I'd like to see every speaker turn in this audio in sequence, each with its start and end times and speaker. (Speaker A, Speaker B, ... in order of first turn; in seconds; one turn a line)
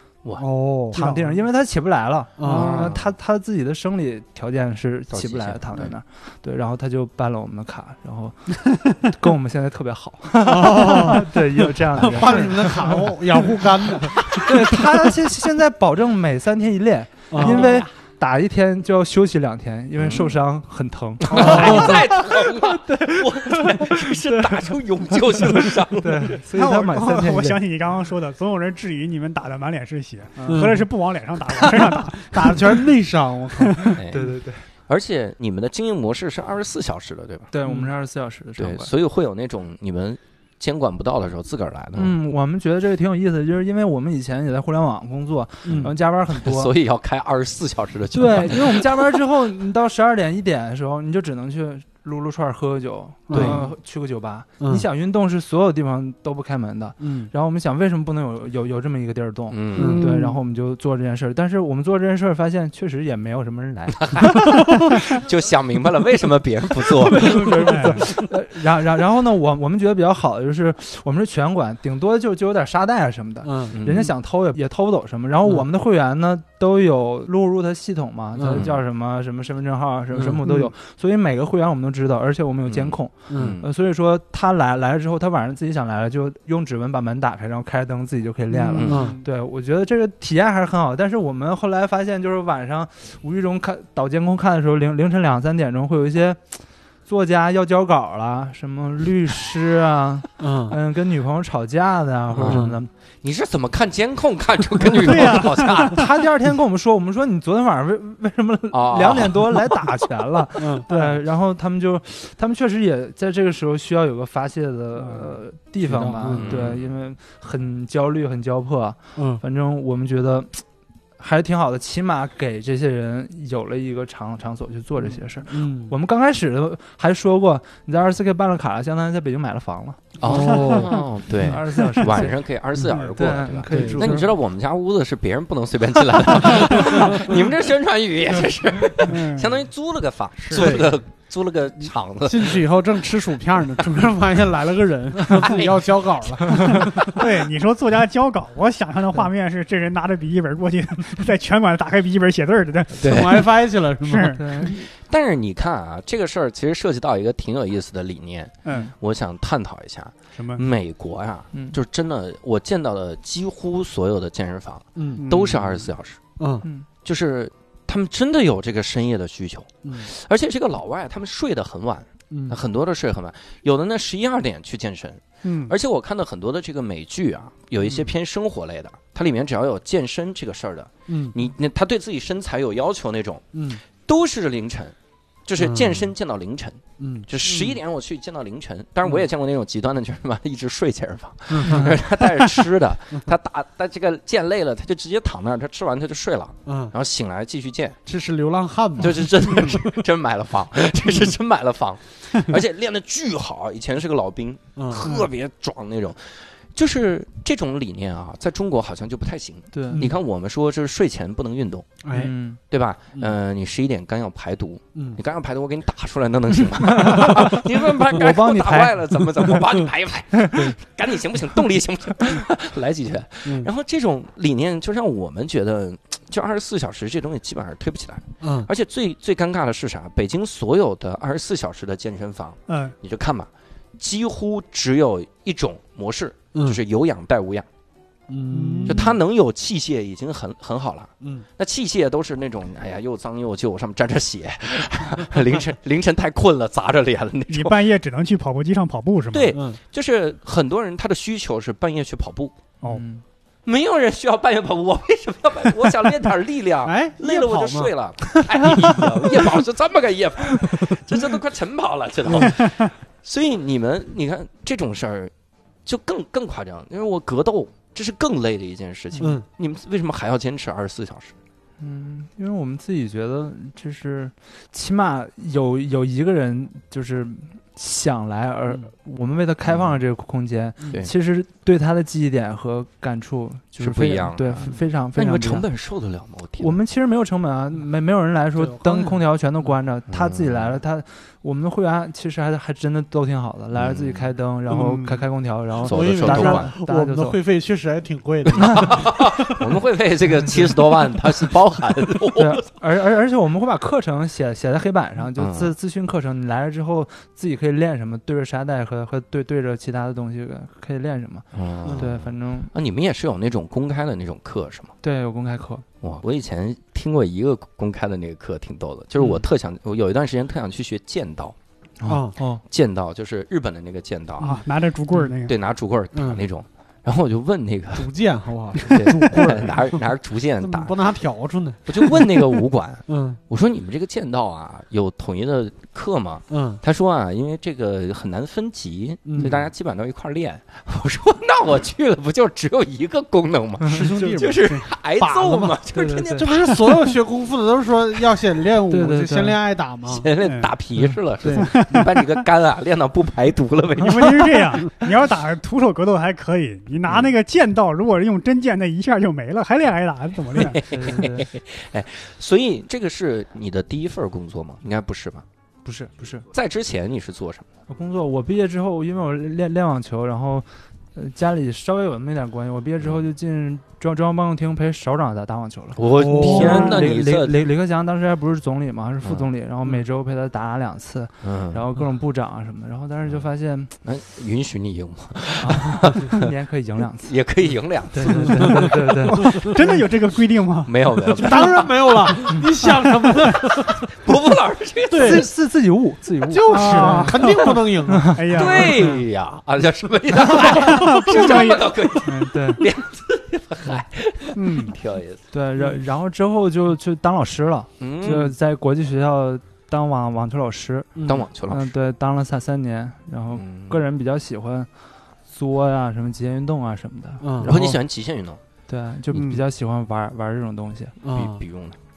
Speaker A: 0.4-1.2
Speaker B: 0.9-1.2
Speaker C: 0.9-27.6
Speaker A: 2.4-2.9
Speaker D: 2.5-3.1
Speaker D: 5.1-5.9
Speaker A: 10.4-11.3
Speaker A: 11.9-14.2
Speaker D: 14.2-14.7
Speaker A: 17.3-17.8
Speaker D: 17.4-17.9
Speaker D: 20.0-20.4
Speaker D: 21.3-26.4
Speaker B: 21.3-22.0
Speaker A: 21.4-21.9
Speaker B: 26.6-32.9
Speaker C: 30.4-30.8
Speaker A: 30.5-30.9
Speaker A: 31.8-33.9
Speaker B: 33.6-34.0
Speaker D: 34.0-37.5
Speaker C: 34.1-34.6
Speaker C: 37.5-38.9
Speaker A: 37.6-37.9
Speaker D: 38.6-42.2
Speaker C: 42.0-46.7
Speaker A: 45.6-45.9
Speaker D: 45.7-49.2
Speaker C: 48.1-64.4
Speaker A: 53.3-53.7
Speaker D: 53.3-53.6
Speaker A: 57.0-57.3
Speaker D: 59.5-60.0
Speaker A: 59.8-60.3
Speaker B: 60.0-60.3
Speaker D: 64.0-68.2
Speaker C: 66.9-102.9
Speaker B: 67.7-68.0
Speaker A: 73.4-74.0
Speaker D: 73.7-74.1
Speaker A: 78.3-78.7
Speaker D: 78.5-78.8
Speaker A: 80.1-80.7
Speaker D: 82.7-83.7
Speaker A: 83.3-83.6
Speaker B: 88.6-89.3
Speaker D: 88.7-89.1
Speaker A: 88.8-89.2
Speaker A: 100.4-100.8
Speaker D: 102.3-106.1
Speaker A: 102.4-102.8
Speaker B: 104.9-106.0
Speaker C: 105.7-120.6
Speaker D: 108.7-109.7
Speaker A: 110.6-110.9
Speaker B: 110.9-111.2
Speaker B: 115.0-115.3
Speaker A: 115.8-116.5
Speaker D: 116.3-116.9
Speaker A: 119.2-119.4
Speaker C: 121.2-134.3
Speaker A: 125.5-126.0
Speaker D: 130.2-142.6
Speaker A: 130.2-131.0
Speaker A: 133.7-134.3
Speaker B: 139.0-139.6
Speaker B: 140.4-140.8
Speaker A: 140.5-141.0
Speaker A: 142.2-147.2
Speaker D: 145.3-145.8
Speaker B: 146.8-153.3
Speaker D: 153.0-153.5
Speaker A: 153.0-154.4
Speaker B: 154.0-154.7
Speaker C: 154.2-154.8
Speaker D: 154.6-166.2
Speaker B: 158.7-158.9
Speaker B: 160.3-160.6
Speaker C: 161.5-161.8
Speaker A: 165.0-165.3
Speaker B: 165.2-165.8
Speaker A: 166.4-166.7
Speaker D: 167.1-184.9
Speaker A: 169.8-170.1
Speaker A: 172.3-172.6
Speaker B: 175.4-175.8
Speaker A: 181.1-181.4
Speaker A: 183.5-183.8
Speaker D: 185.5-198.0
Speaker A: 185.6-186.1
Speaker A: 187.0-187.8
Speaker A: 191.5-191.9
Speaker C: 191.7-192.0
Speaker A: 196.7-196.9
Speaker A: 198.1-199.9
Speaker D: 199.0-212.0
Speaker A: 204.8-205.1
Speaker C: 209.7-210.1
Speaker A: 212.0-212.3
Speaker C: 212.1-212.6
Speaker D: 212.7-237.7
Speaker A: 214.9-215.2
Speaker C: 216.8-219.7
Speaker C: 220.3-220.8
Speaker A: 228.4-228.7
Speaker B: 232.7-232.9
Speaker A: 236.5-236.8
Speaker A: 238.3-239.1
Speaker B: 238.5-239.1
Speaker D: 238.9-247.8
Speaker A: 241.2-241.5
Speaker B: 247.5-249.6
Speaker D: 249.3-252.5
Speaker A: 249.5-249.8
Speaker C: 252.8-253.2
Speaker D: 253.7-265.3
Speaker A: 256.9-257.9
Speaker A: 262.3-262.5
Speaker D: 265.9-271.4
Speaker A: 269.2-269.4
Speaker C: 271.8-285.7
Speaker D: 283.8-286.8
Speaker C: 286.6-297.4
Speaker A: 288.6-289.2
Speaker D: 290.1-290.8
Speaker D: 293.7-294.3
Speaker B: 294.7-295.2
Speaker D: 295.8-296.7
Speaker A: 295.8-299.4
Speaker D: 298.5-302.6
Speaker C: 298.6-298.9
Speaker C: 302.3-312.7
Speaker D: 305.4-305.7
Speaker D: 311.5-314.9
Speaker C: 315.0-315.9
Speaker D: 316.0-321.6
Speaker C: 322.0-322.6
Speaker A: 322.1-322.4
Speaker D: 322.7-324.6
Speaker B: 324.4-325.6
Speaker D: 325.4-328.1
Speaker A: 326.1-326.4
Speaker A: 327.9-330.0
Speaker D: 328.8-331.0
Speaker A: 330.6-332.6
Speaker D: 331.9-347.1
Speaker A: 333.1-333.4
Speaker A: 336.5-336.8
Speaker A: 339.2-339.5
Speaker C: 339.4-339.7
Speaker A: 343.8-345.8
Speaker C: 343.9-344.4
Speaker C: 345.9-346.5
Speaker A: 346.4-350.3
Speaker C: 348.9-349.6
Speaker D: 350.1-354.8
Speaker B: 350.4-350.7
Speaker A: 351.4-351.9
Speaker B: 351.6-352.3
Speaker B: 354.0-360.8
Speaker D: 357.1-357.3
Speaker D: 360.5-365.4
Speaker C: 360.9-361.5
Speaker C: 365.9-366.5
Speaker D: 366.5-367.7
Speaker C: 367.9-383.9
Speaker D: 376.0-377.6
Speaker A: 376.1-377.0
Speaker D: 379.2-379.5
Speaker D: 381.4-381.8
Speaker D: 384.0-386.5
Speaker C: 385.6-387.4
Speaker D: 387.2-388.9
Speaker C: 388.1-390.0
Speaker A: 388.3-389.0
Speaker B: 389.3-391.7
Speaker D: 390.9-392.7
Speaker A: 391.4-393.9
Speaker D: 393.4-395.5
Speaker A: 395.1-395.5
Speaker C: 395.2-399.2
Speaker A: 396.5-398.4
Speaker B: 396.7-397.8
Speaker B: 398.3-399.1
Speaker D: 398.5-405.4
Speaker B: 400.5-401.9
Speaker C: 402.3-402.8
Speaker B: 404.6-405.0
Speaker C: 405.5-414.9
Speaker D: 408.0-408.6
Speaker A: 411.2-411.4
Speaker D: 411.2-411.9
Speaker D: 413.6-414.0
Speaker C: 415.5-418.0
Speaker A: 417.4-417.7
Speaker D: 417.6-418.6
Speaker C: 418.9-421.1
Speaker B: 419.3-419.6
Speaker A: 421.2-421.6
Speaker D: 421.3-422.0